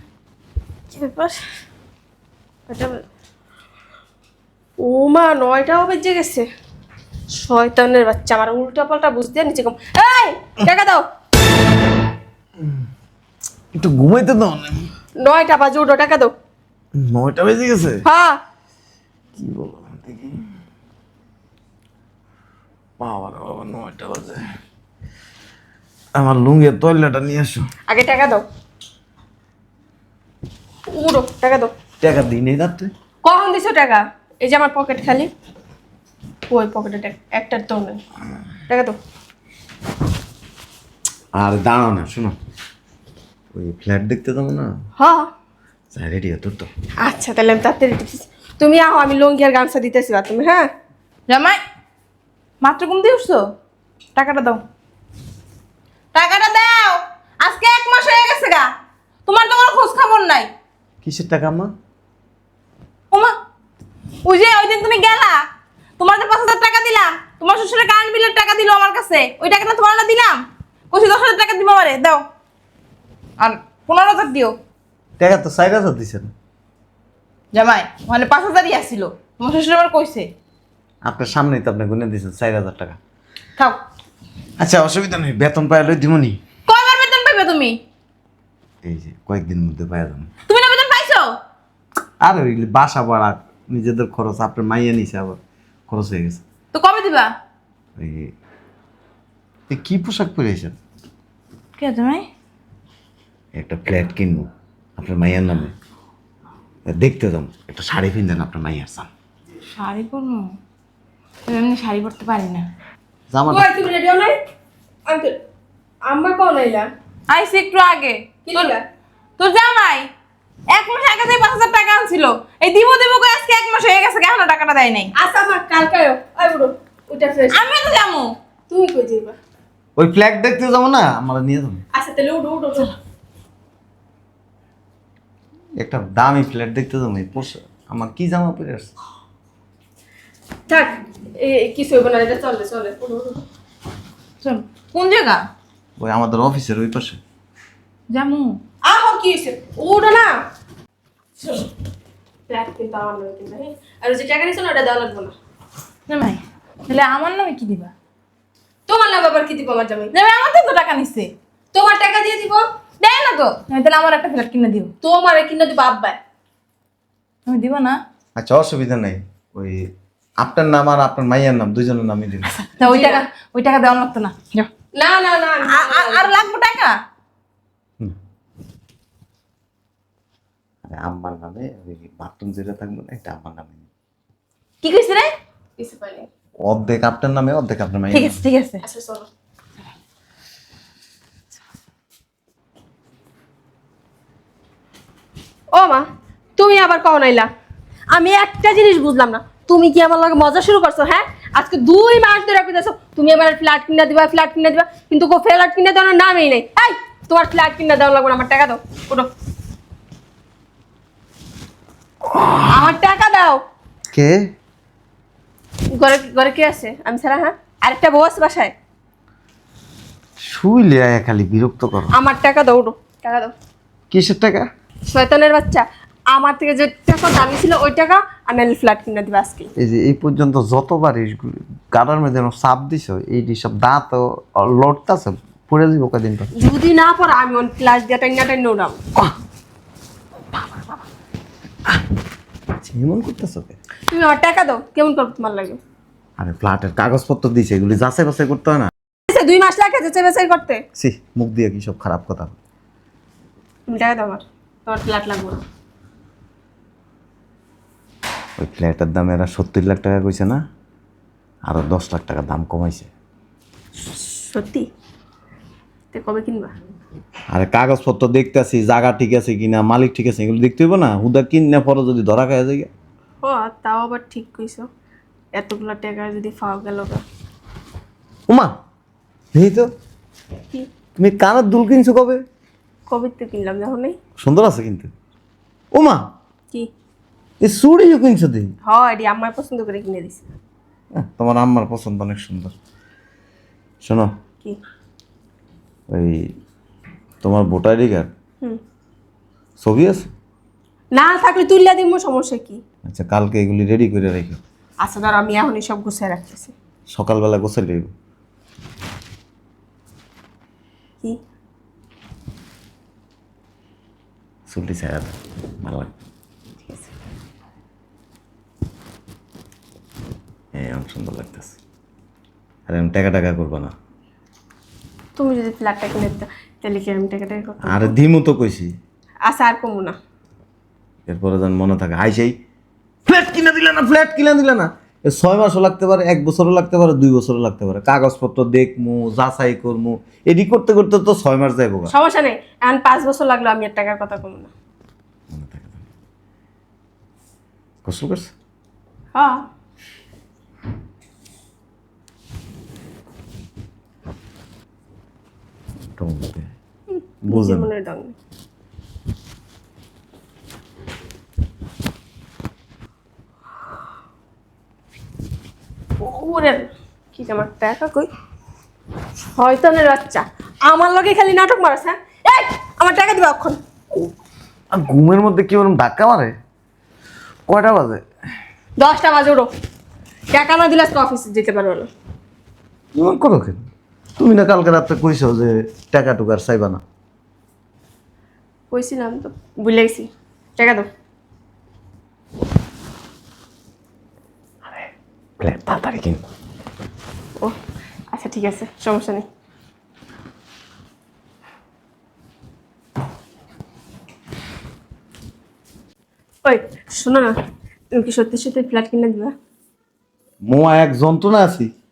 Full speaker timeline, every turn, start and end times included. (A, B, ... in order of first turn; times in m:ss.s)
0:00.9-0:01.4 A
0:02.7-0:03.0 A
0:04.8-0:06.4 A
0:07.4-0:11.0 A
0:13.7-0:14.9 B
0:15.2-0:16.3 A
0:17.0-0:18.0 B
0:18.0-0:18.4 A
0:19.4-0:20.4 B
0:23.0-0:24.4 B
0:26.2-0:27.7 B
0:27.9-0:28.4 A
0:30.9-0:31.7 A
0:32.0-0:32.9 B
0:33.2-0:35.3 A
0:36.5-0:38.0 A
0:38.7-0:39.0 A
0:41.4-0:42.4 B
0:43.5-0:44.7 B
0:45.0-0:45.3 A
0:45.9-0:46.7 B
0:47.0-0:50.7 A
0:51.3-0:51.6 C
0:52.6-0:53.4 C
0:54.2-0:54.6 C
0:56.2-0:58.7 C
0:59.3-1:00.5 C
1:01.0-1:01.7 B
1:04.2-1:05.4 C
1:06.0-1:12.2 C
1:13.4-1:14.6 C
1:15.2-1:16.3 B
1:17.5-1:20.3 C
1:21.0-1:23.0 B
1:24.6-1:26.4 B
1:26.7-1:27.8 C
1:28.8-1:30.3 B
1:30.5-1:31.3 C
1:32.2-1:36.4 B
1:36.7-1:37.3 C
1:38.0-1:38.3 B
1:39.7-1:40.8 B
1:41.8-1:42.3 C
1:43.6-1:45.7 B
1:46.9-1:49.1 B
1:49.8-1:50.5 C
1:51.5-1:52.7 C
1:53.3-1:53.7 B
1:53.5-1:54.4 A
1:55.1-1:55.4 A
1:56.1-1:56.9 A
1:57.3-1:58.7 C
1:58.5-1:58.8 A
1:59.4-2:00.1 C
2:00.7-2:05.1 C
2:05.2-2:07.6 A
2:07.5-2:08.3 C
2:08.7-2:09.4 A
2:10.0-2:11.8 B
2:11.9-2:12.9 A
2:15.8-2:18.9 B
2:20.7-2:23.4 A
2:24.4-2:25.4 C
2:26.0-2:27.2 B
2:28.1-2:28.6 C
2:28.8-2:30.4 A
2:31.4-2:31.7 A
2:32.5-2:35.3 A
2:36.1-2:37.9 C
2:38.9-2:40.1 A
2:40.1-2:41.3 C
2:41.7-2:42.6 A
2:43.0-2:44.9 C
2:45.0-2:46.2 A
2:47.5-2:48.0 C
2:48.4-2:49.9 B
2:50.4-2:52.5 B
2:52.5-2:54.7 C
2:52.8-2:53.2 A
2:55.0-2:56.3 A
2:55.7-2:57.0 C
3:00.8-3:03.9 B
3:04.8-3:05.3 C
3:05.8-3:06.3 A
3:06.6-3:08.4 B
3:08.1-3:08.8 C
3:08.8-3:09.3 A
3:15.7-3:16.0 A
3:16.6-3:17.5 A
3:18.1-3:29.3 A
3:32.3-3:32.6 B
3:32.7-3:33.6 A
3:34.1-3:34.4 B
3:36.0-3:38.7 A
3:40.4-3:42.1 B
3:42.1-3:43.5 A
3:44.1-3:44.7 B
3:45.1-3:49.7 A
3:49.8-3:56.5 B
3:56.6-3:59.0 A
4:00.5-4:00.9 B
4:02.8-4:03.8 B
4:04.1-4:05.8 A
4:06.4-4:08.9 B
4:09.3-4:10.8 A
4:11.0-4:12.6 B
4:13.9-4:15.6 A
4:18.6-4:20.6 B
4:21.6-4:23.1 B
4:24.1-4:24.9 A
4:26.1-4:26.7 A
4:27.5-4:32.9 B
4:33.4-4:34.9 A
4:35.6-4:37.2 A
4:39.5-4:39.9 B
4:41.2-4:42.4 B
4:43.1-4:44.2 A
4:44.4-4:45.1 B
4:45.9-4:46.2 B
4:47.6-4:48.7 B
4:48.9-4:50.4 A
4:51.2-4:52.7 B
4:54.0-4:54.3 B
4:56.1-4:56.5 B
4:57.4-4:58.3 B
4:59.8-5:00.3 B
5:01.1-5:02.8 A
5:03.1-5:04.6 B
5:05.0-5:06.7 A
5:07.1-5:08.1 B
5:14.7-5:16.1 B
5:20.8-5:21.8 B
5:22.9-5:23.9 B
5:25.4-5:28.2 A
5:27.9-5:28.9 B
5:29.5-5:30.2 A
5:31.3-5:32.6 B
5:33.3-5:42.1 B
5:42.1-5:44.7 A
5:45.5-5:46.0 B
5:48.0-5:48.5 B
5:49.4-5:49.6 A
5:56.2-5:56.7 B
5:57.4-5:57.9 B
5:57.5-5:58.4 A
6:06.2-6:08.3 A
6:09.6-6:13.8 A
6:14.9-6:16.6 B
6:17.7-6:18.2 B
6:19.0-6:19.7 A
6:20.5-6:22.1 A
6:23.2-6:23.8 B
6:24.4-6:27.0 B
6:28.9-6:31.1 A
6:35.6-6:36.4 B
6:38.3-6:39.4 A
6:46.6-6:47.6 A
6:48.2-6:49.5 A
6:50.6-6:51.9 B